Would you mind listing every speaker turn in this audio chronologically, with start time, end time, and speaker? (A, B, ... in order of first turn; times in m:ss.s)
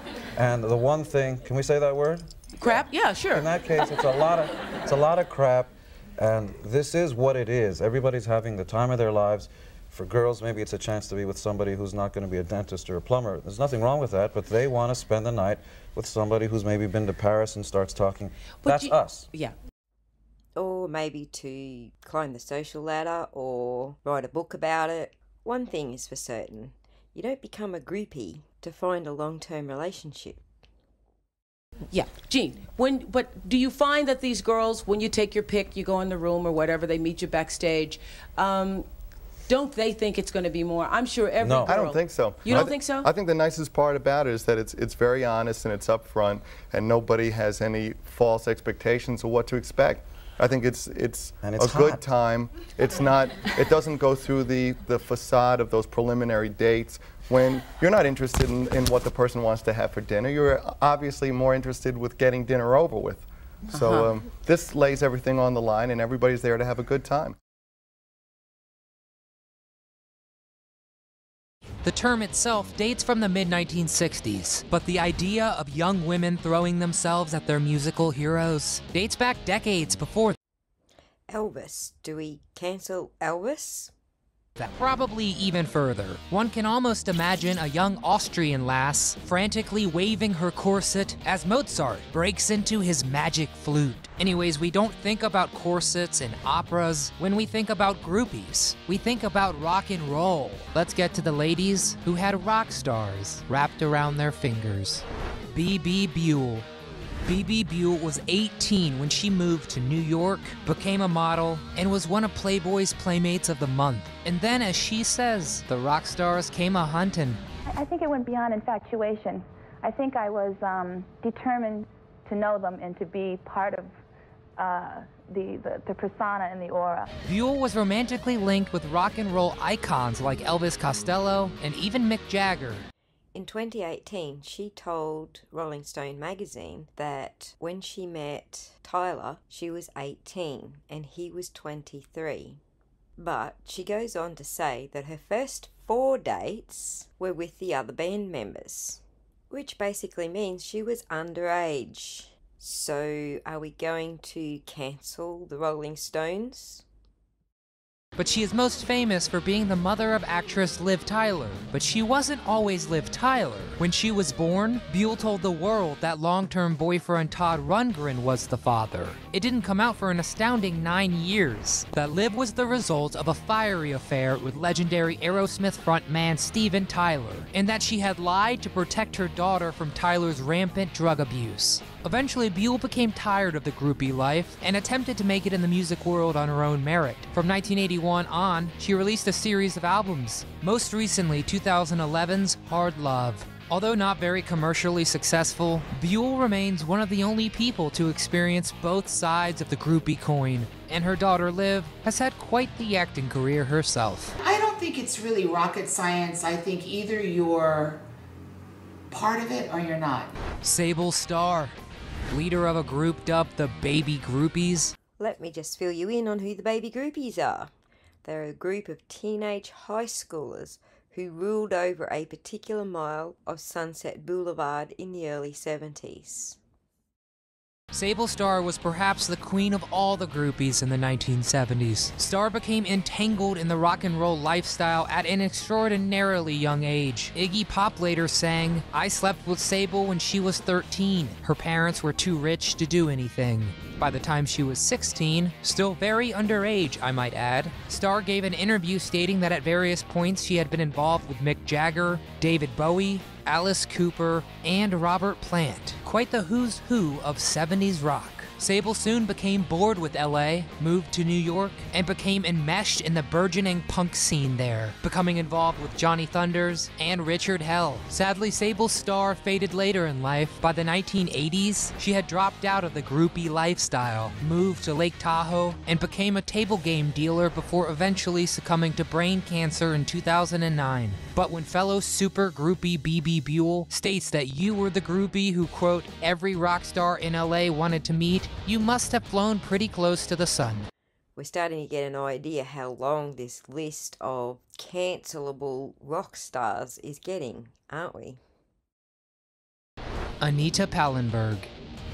0:00.4-0:02.3 A
0:02.6-0:03.6 B
0:03.3-0:19.3 A
0:18.6-0:19.6 B
0:20.6-0:30.4 C
0:31.9-0:38.9 B
0:39.5-0:43.1 B
0:41.4-0:41.8 A
0:41.7-1:07.4 D
0:51.4-0:52.0 A
1:03.7-1:04.2 B
1:11.8-1:20.4 E
1:21.3-1:23.9 C
1:24.6-1:46.7 E
1:47.2-1:57.4 E
1:57.7-2:03.9 F
2:04.6-2:07.1 F
2:07.2-2:12.9 E
2:13.3-2:22.6 C
2:23.2-2:36.8 C
2:38.2-3:24.4 E
3:24.4-3:28.0 G
3:29.1-3:30.3 G
3:30.6-3:31.8 E
3:32.3-3:35.0 E
3:35.2-3:37.7 C
3:38.2-3:46.6 C
3:47.9-4:50.9 E
4:51.4-4:58.4 C
5:00.4-5:01.7 E